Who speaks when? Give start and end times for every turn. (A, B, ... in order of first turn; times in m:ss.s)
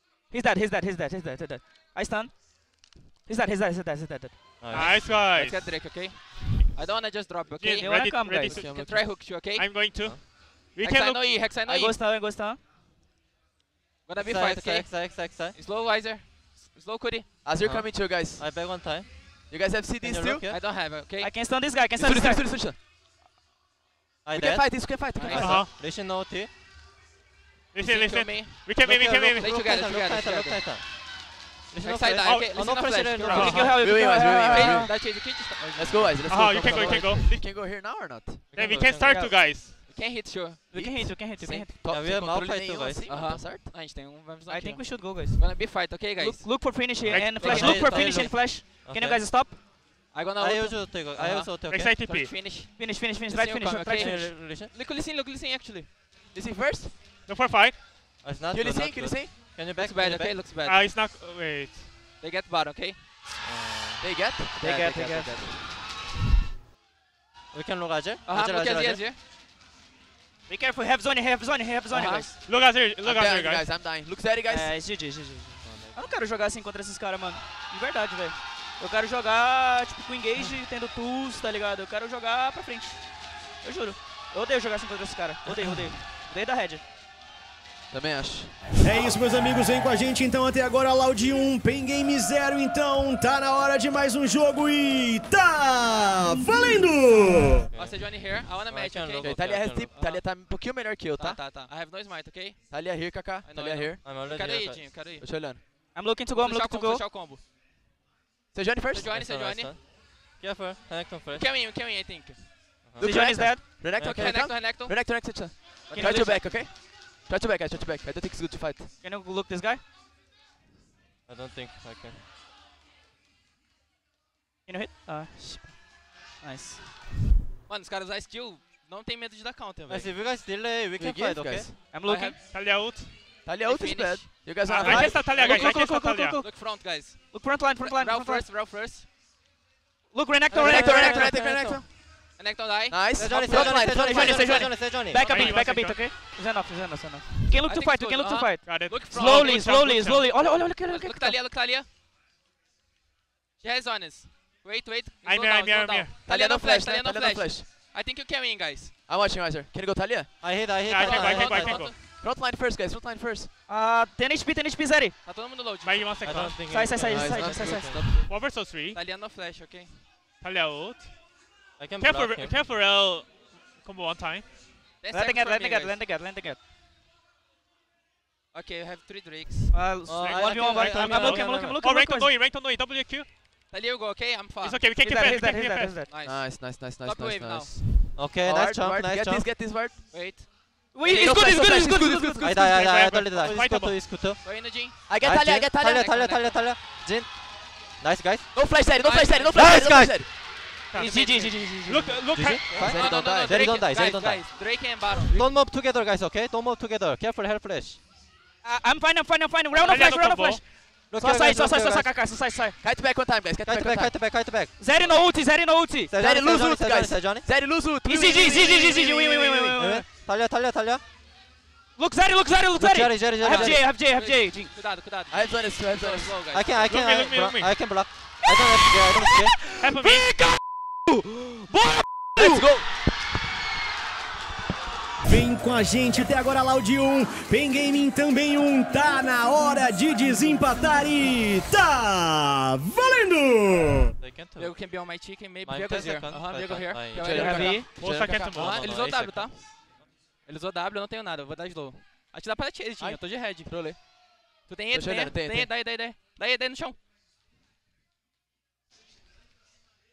0:00.3-0:02.5 A
0:03.2-0:04.4 A
0:04.6-0:05.2 B
0:04.7-0:05.7 C
0:05.2-0:08.0 D
0:07.6-0:08.8 C
0:07.7-0:08.6 A
0:08.5-0:09.1 E
0:08.5-0:09.9 D
0:09.5-0:11.2 C
0:10.6-0:12.0 D
0:11.6-0:12.6 A
0:14.0-0:17.3 D
0:14.2-0:15.6 B
0:17.4-0:18.4 E
0:17.6-0:19.1 B
0:19.5-0:20.4 E
0:20.0-0:20.6 B
0:20.5-0:21.4 D
0:21.2-0:22.5 A
0:22.0-0:22.8 E
0:22.0-0:22.3 F
0:24.2-0:26.5 B
0:24.4-0:25.3 E
0:25.1-0:25.6 D
0:25.3-0:25.7 C
0:27.7-0:29.4 C
0:27.8-0:28.7 D
0:28.8-0:30.9 B
0:29.4-0:30.7 D
0:31.7-0:33.8 B
0:31.8-0:33.8 D
0:32.2-0:32.5 C
0:33.3-0:33.8 C
0:33.3-0:34.9 A
0:33.8-0:35.0 E
0:34.4-0:37.1 D
0:34.5-0:35.2 F
0:35.7-0:38.5 E
0:36.3-0:37.3 C
0:38.5-0:39.2 B
0:38.5-0:39.8 C
0:38.8-0:40.7 D
0:40.7-0:41.7 A
0:40.7-0:43.6 E
0:41.8-0:43.0 B
0:43.1-0:48.5 D
0:44.5-0:49.6 A
0:47.0-0:49.3 B
0:50.1-0:51.5 D
0:50.4-0:51.9 B
0:51.6-0:52.3 C
0:52.0-0:55.9 D
0:52.7-0:54.2 A
0:53.8-0:54.7 B
0:56.3-0:57.0 E
0:57.2-0:57.8 C
0:58.2-1:00.4 B
0:58.5-0:58.8 F
0:58.7-0:59.4 E
0:59.7-1:00.8 D
1:00.6-1:01.9 C
1:02.2-1:03.0 D
1:03.4-1:04.1 B
1:04.0-1:05.5 E
1:04.6-1:05.6 A
1:07.5-1:09.0 B
1:08.2-1:09.2 D
1:10.5-1:12.4 A
1:11.9-1:12.4 D
1:12.4-1:13.7 C
1:13.1-1:14.7 E
1:14.5-1:26.8 A
1:15.6-1:16.0 B
1:27.9-1:28.6 E
1:28.7-1:37.7 F
1:37.6-1:39.9 B
1:37.7-1:40.6 D
1:39.3-1:41.4 E
1:41.1-1:42.8 D
1:42.7-1:44.0 E
1:43.4-1:45.4 D
1:44.0-1:44.9 B
1:45.2-1:45.6 E
1:45.9-1:47.1 A
1:46.3-1:47.4 D
1:48.5-1:49.1 E
1:48.9-1:49.7 D
1:49.1-1:51.5 B
1:51.3-1:52.5 D
1:52.8-1:53.4 B
1:53.0-1:58.9 E
1:53.0-1:53.6 A
1:53.4-1:54.8 F
1:54.0-1:55.0 D
1:54.0-1:54.5 B
1:55.5-1:56.6 D
1:55.6-1:56.0 F
1:55.9-1:56.4 A
1:59.0-1:59.8 A
2:01.3-2:02.2 B
2:04.6-2:06.8 A
2:07.6-2:10.2 D
2:09.9-2:11.7 B
2:11.0-2:11.7 F
2:11.2-2:11.6 E
2:11.9-2:12.4 A
2:12.0-2:12.4 D
2:12.5-2:13.2 C
2:13.4-2:15.2 E
2:13.6-2:15.7 D
2:14.7-2:16.4 C
2:14.7-2:18.4 A
2:15.0-2:15.3 F
2:16.4-2:19.1 D
2:20.1-2:21.4 A
2:20.5-2:21.8 B
2:20.6-2:21.9 E
2:20.6-2:21.2 F
2:21.4-2:23.7 D
2:22.9-2:24.5 E
2:23.1-2:25.3 B
2:23.5-2:31.4 A
2:25.1-2:26.0 C
2:27.5-2:31.9 D
2:28.6-2:29.4 C
2:29.1-2:30.2 B
2:33.6-2:39.0 D
2:35.2-2:36.2 C
2:36.2-2:37.7 E
2:39.1-2:40.4 E
2:40.4-2:41.8 B
2:40.8-2:42.0 C
2:41.0-2:42.0 D
2:42.1-2:43.5 E
2:43.7-2:45.2 A
2:45.2-2:46.1 D
2:45.8-2:46.6 C
2:46.2-2:48.1 B
2:46.7-2:48.0 A
2:47.1-2:48.3 E
2:48.0-2:49.0 C
2:48.6-2:50.0 D
2:50.4-2:51.1 C
2:51.8-2:52.5 B
2:52.0-2:54.5 C
2:55.0-2:56.0 D
2:55.1-2:56.6 A
2:58.5-2:59.8 D
2:59.7-3:02.3 A
3:00.1-3:01.8 B
3:00.2-3:03.3 C
3:03.7-3:04.8 D
3:04.6-3:06.0 C
3:05.0-3:06.1 A
3:06.0-3:07.8 D
3:06.2-3:07.9 E
3:08.1-3:09.5 B
3:08.4-3:10.0 E
3:10.1-3:10.5 D
3:10.9-3:12.5 A
3:11.0-3:12.6 E
3:12.4-3:18.7 B
3:12.5-3:14.0 C
3:14.4-3:15.0 D
3:15.1-3:16.0 E
3:15.9-3:16.7 D
3:18.5-3:20.2 E
3:18.8-3:19.7 D
3:19.5-3:20.2 B
3:19.6-3:20.2 F
3:20.9-3:22.3 A
3:21.0-3:21.6 D
3:21.8-3:22.8 C
3:22.3-3:28.0 B
3:22.8-3:25.4 D
3:22.8-3:23.6 E
3:28.6-3:32.8 A
3:29.8-3:30.6 C
3:31.1-3:32.2 B
3:32.8-3:34.1 E
3:33.6-3:34.9 B
3:34.8-3:36.1 A
3:36.1-3:37.4 B
3:36.2-3:39.6 E
3:38.0-3:40.1 A
3:39.2-3:39.7 F
3:39.7-3:41.0 B
3:41.9-3:44.7 A
3:42.8-3:43.9 B
3:43.4-3:46.9 D
3:45.3-3:46.4 E
3:46.5-3:49.6 B
3:46.9-3:47.8 C
3:49.2-3:52.6 A
3:49.8-3:50.3 C
3:52.4-3:52.9 E
3:55.2-4:04.1 F
4:04.2-4:04.8 B
4:04.6-4:07.9 D
4:05.6-4:07.9 B
4:07.2-4:08.6 E
4:07.4-4:07.8 A
4:07.9-4:08.8 C
4:08.4-4:09.8 D
4:08.5-4:09.7 B
4:10.4-4:13.8 D
4:13.6-4:14.0 E
4:14.6-4:17.0 D
4:14.9-4:15.7 E